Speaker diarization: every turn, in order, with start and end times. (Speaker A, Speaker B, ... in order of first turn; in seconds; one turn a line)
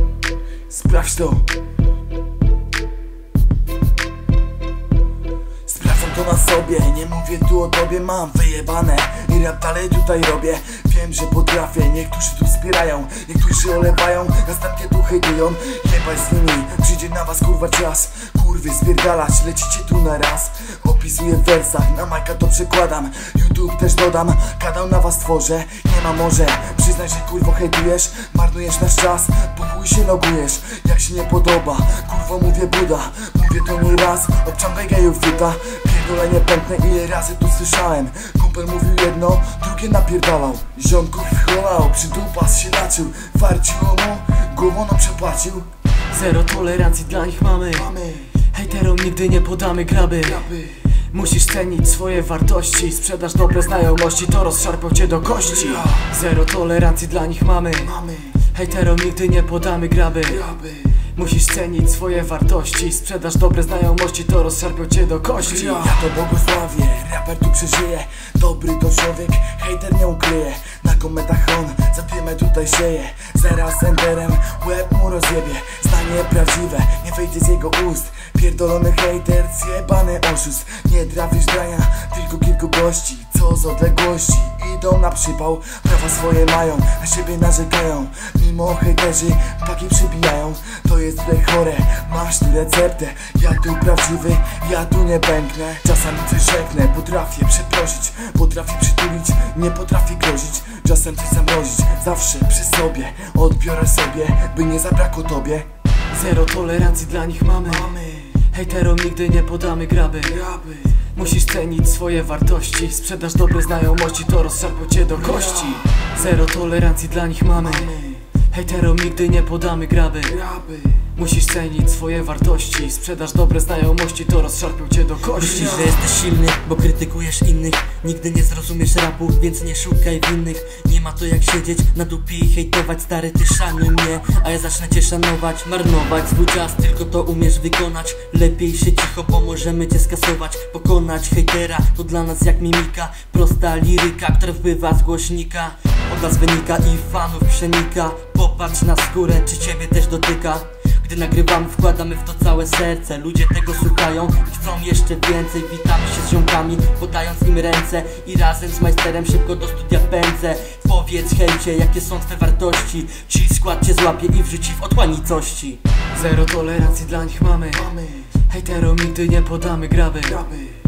Speaker A: 0.7-1.5
Speaker A: 5.7-45.7
Speaker B: 46.1-60.5
Speaker A: 47.8-48.3
Speaker A: 50.3-50.8
Speaker A: 55.5-56.0
Speaker A: 57.8-58.4
Speaker A: 60.4-60.9
Speaker B: 61.0-65.8
Speaker A: 65.5-105.7
Speaker B: 106.1-110.5
Speaker A: 107.7-108.4
Speaker A: 110.4-110.8
Speaker B: 111.0-120.5
Speaker A: 115.2-115.9
Speaker A: 117.6-118.2
Speaker A: 120.4-120.9
Speaker B: 121.0-126.0
Speaker C: 125.4-165.8
Speaker B: 166.1-167.9
Speaker A: 167.7-168.3
Speaker B: 168.4-170.4
Speaker A: 170.3-170.8